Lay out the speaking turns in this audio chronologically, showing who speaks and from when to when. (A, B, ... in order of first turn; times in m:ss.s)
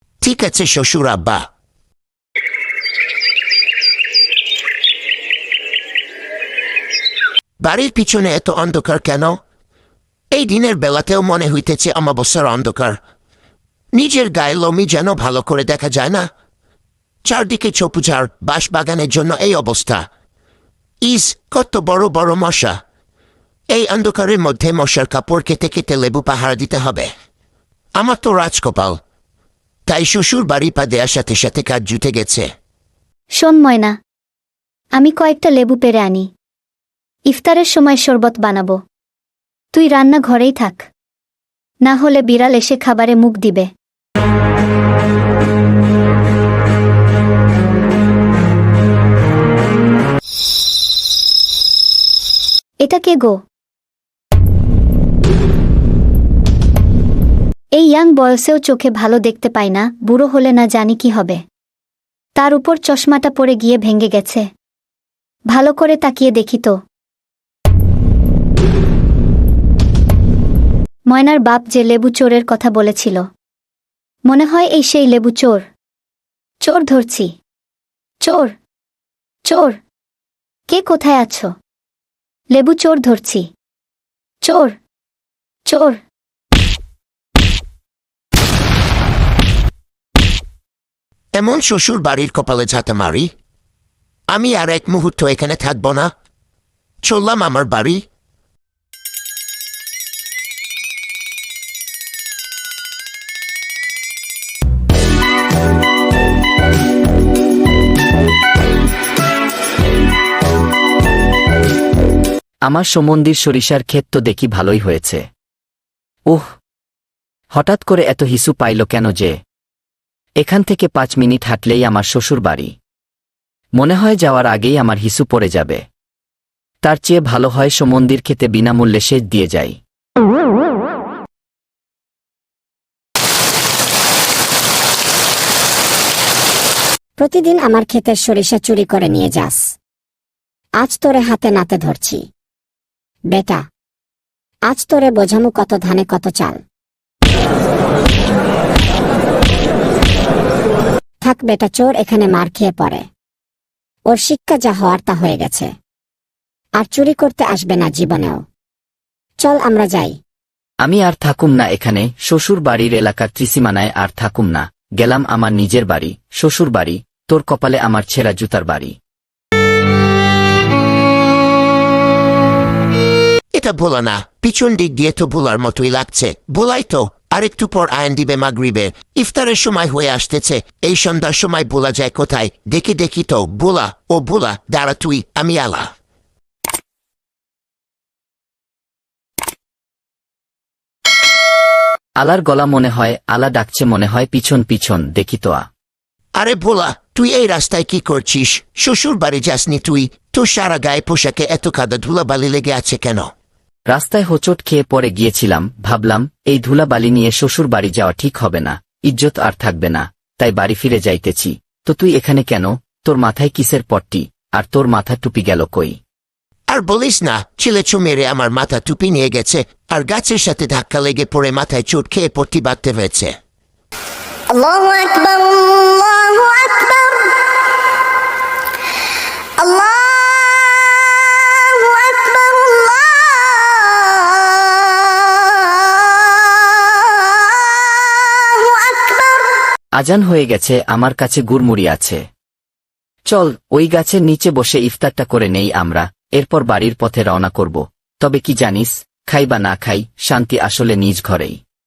0:00.3-0:01.4 A
0:07.6-0:09.4 A
0:10.3-0:13.0 A
0:13.9-0:16.3 A
0:17.3-0:20.1 A
0:21.0-0:22.8 A
0:23.7-0:27.1 A
0:28.0-0:29.0 A
0:29.9-0:32.5 A
0:33.4-0:34.0 B
0:35.0-0:36.3 B
0:37.3-0:38.8 B
0:39.7-0:40.8 B
0:41.8-0:43.7 B
0:52.8-0:53.4 B
0:57.8-1:01.4 B
1:02.4-1:04.4 B
1:05.5-1:06.7 B
1:11.1-1:13.2 B
1:14.3-1:15.6 B
1:16.6-1:17.3 B
1:18.2-1:18.5 B
1:19.5-1:19.8 B
1:20.7-1:21.5 B
1:22.5-1:23.5 B
1:24.4-1:24.7 B
1:25.7-1:26.0 B
1:31.4-1:33.3 A
1:34.3-1:36.1 A
1:37.0-1:38.0 A
1:52.7-1:55.3 C
1:57.5-1:59.4 C
2:00.4-2:02.7 C
2:03.8-2:05.8 C
2:06.8-2:09.8 C
2:17.2-2:19.7 D
2:20.8-2:22.3 D
2:23.3-2:23.7 D
2:24.7-2:26.6 D
2:31.2-2:33.1 D
2:34.1-2:35.7 D
2:36.8-2:38.4 D
2:39.4-2:40.2 D
2:40.8-2:49.0 C
2:53.6-3:05.9 A
3:12.2-3:15.7 C
3:16.4-3:23.3 A
3:23.9-3:36.0 C
3:36.7-3:43.4 A
4:00.0-4:02.2 C
4:03.3-4:11.6 C